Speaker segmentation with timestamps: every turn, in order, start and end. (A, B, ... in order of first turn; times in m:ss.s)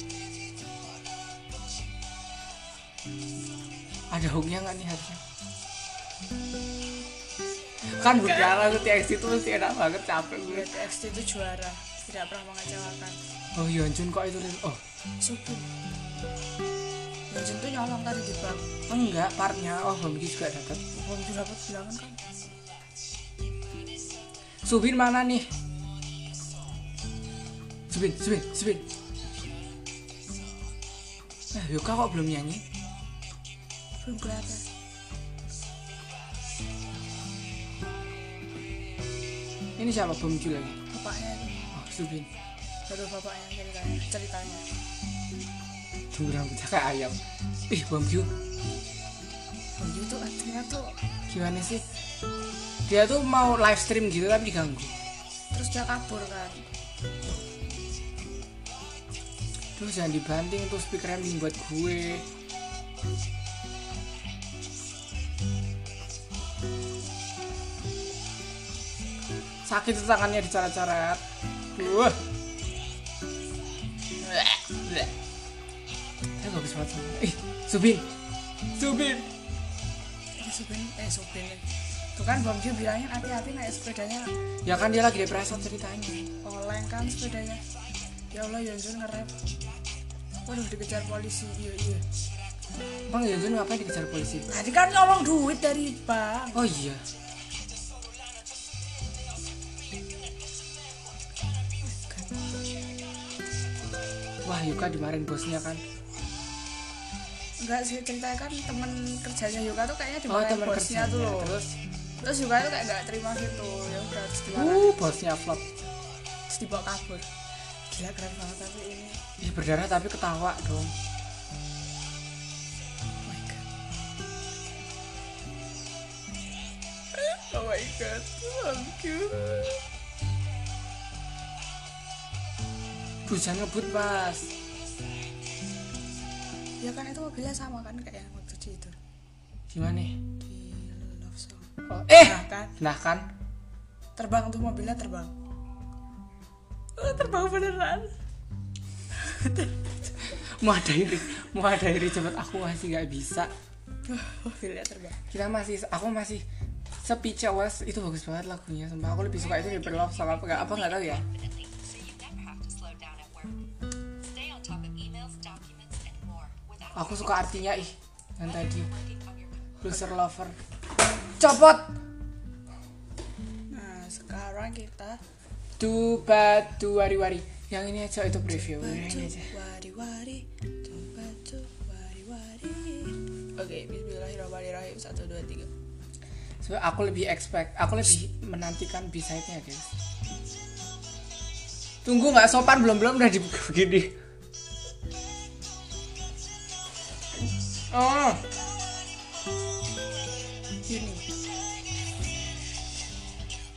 0:04.1-0:05.2 A
0:07.9-0:10.7 A
0:08.0-0:08.5 B
0:10.5-0:13.2 B
0:13.6-0:14.8 A
0:15.2-0:15.7 B
0:17.3-0:18.7 B
0:18.9-0:20.8 A
0:20.9-0:22.2 B
0:24.6-0:25.5 A
0:27.9-0:28.9 A
0:31.5-0:32.6 A
0:34.0-0:34.6 B
0:39.8-0:40.8 A
0:40.9-0:41.6 B
0:41.7-0:42.3 A
0:42.9-0:44.7 B
0:46.1-0:48.3 A
0:49.8-0:51.0 B
0:51.3-0:51.8 A
0:52.9-0:54.9 A
0:55.5-0:56.7 B
0:59.8-1:02.3 A
1:09.7-1:11.2 A
1:11.8-1:12.2 A
1:14.2-1:15.1 A
1:16.4-1:18.1 A
1:18.8-1:19.3 A
1:20.4-1:24.3 B
1:24.6-1:26.3 A
1:26.4-1:27.6 B
1:28.3-1:29.4 B
1:30.5-1:32.0 B
1:33.1-1:34.5 A
1:34.5-1:36.7 B
1:36.5-1:37.0 A
1:41.8-1:42.4 B
1:44.4-1:45.8 A
1:47.6-1:51.6 B
1:50.3-1:51.8 A
1:52.2-1:55.0 B
1:54.5-1:55.6 A
1:56.5-1:57.3 B
1:57.9-1:59.2 B
1:59.4-2:00.9 A
2:03.3-2:03.6 B
2:07.1-2:09.8 B
2:13.3-2:14.5 A
2:16.8-2:19.0 B
2:19.7-2:20.2 A
2:20.4-2:22.7 B
2:21.9-2:23.3 A
2:24.2-2:25.3 B
2:27.0-2:28.2 B
2:29.2-2:29.8 B
2:30.4-2:33.5 A
2:34.1-2:35.2 B
2:35.3-2:36.4 A
2:37.0-2:41.2 A
2:39.3-2:43.6 C
2:44.2-2:49.8 C
2:46.9-2:48.9 A
2:49.8-2:50.6 A
2:51.4-2:51.9 A
2:53.7-2:55.2 B
2:55.8-2:59.5 A
2:58.7-3:05.7 B
3:06.6-3:09.9 A
3:12.0-3:14.1 A
3:17.9-3:18.4 A
3:20.9-3:21.2 B